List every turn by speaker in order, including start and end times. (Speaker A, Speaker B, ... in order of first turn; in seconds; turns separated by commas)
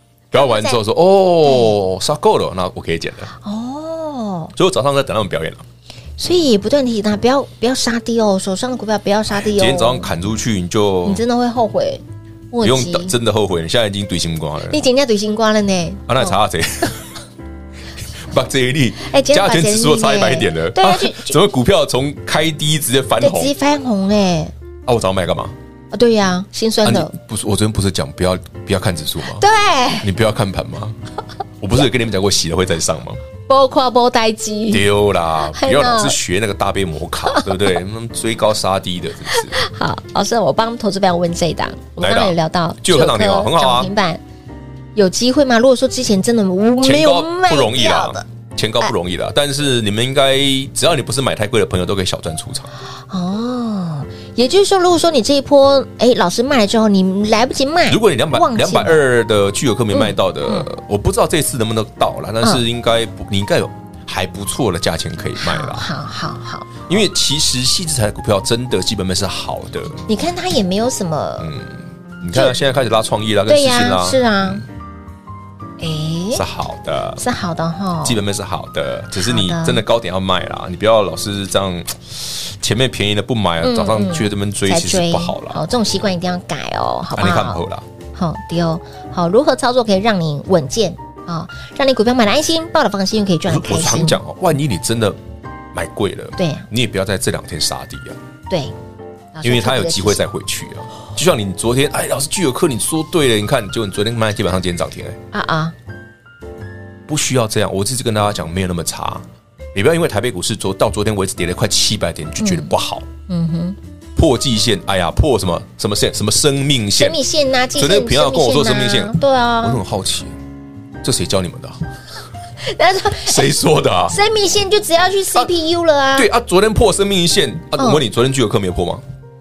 Speaker A: 0.3-3.3, Speaker B: 0.4-0.8, Speaker B: 3.4-4.5, Speaker A: 4.6-5.6, Speaker B: 6.2-10.1, Speaker A: 9.4-11.2, Speaker B: 11.1-13.1, Speaker A: 12.6-14.8, Speaker B: 14.7-16.4, Speaker A: 16.1-17.1, Speaker A: 18.3-23.5, Speaker B: 19.0-21.4, Speaker B: 23.2-24.5, Speaker A: 24.9-25.6, Speaker B: 25.9-27.1, Speaker A: 26.8-29.4, Speaker B: 29.4-30.1, Speaker A: 30.0-31.0, Speaker A: 31.6-33.2, Speaker B: 33.5-34.9, Speaker A: 34.7-39.6, Speaker B: 35.5-36.2, Speaker B: 39.3-44.2, Speaker A: 42.0-43.9, Speaker B: 45.0-48.2, Speaker A: 46.8-52.7, Speaker B: 53.1-59.0, Speaker A: 57.9-65.9, Speaker B: 59.9-60.7, Speaker B: 65.4-66.9, Speaker A: 66.9-70.0, Speaker B: 70.1-71.5, Speaker A: 71.4-74.6, Speaker B: 73.5-74.6, Speaker B: 75.8-76.4, Speaker A: 76.3-77.2, Speaker B: 77.2-78.2, Speaker A: 78.0-85.6, Speaker B: 79.2-79.8, Speaker B: 83.6-87.6, Speaker A: 87.2-87.8, Speaker B: 88.2-94.2, Speaker A: 93.5-95.2, Speaker A: 95.7-98.2, Speaker B: 96.4-96.7, Speaker B: 99.3-100.2, Speaker A: 99.4-105.2, Speaker B: 105.3-105.8, Speaker A: 107.1-113.1, Speaker B: 112.4-112.7, Speaker B: 113.3-113.8, Speaker A: 114.2-117.2, Speaker B: 117.0-119.8, Speaker A: 117.8-120.4, Speaker A: 121.0-121.8, Speaker B: 122.6-123.5, Speaker A: 123.2-124.2, Speaker B: 124.1-126.3, Speaker A: 126.2-129.0, Speaker B: 127.8-128.0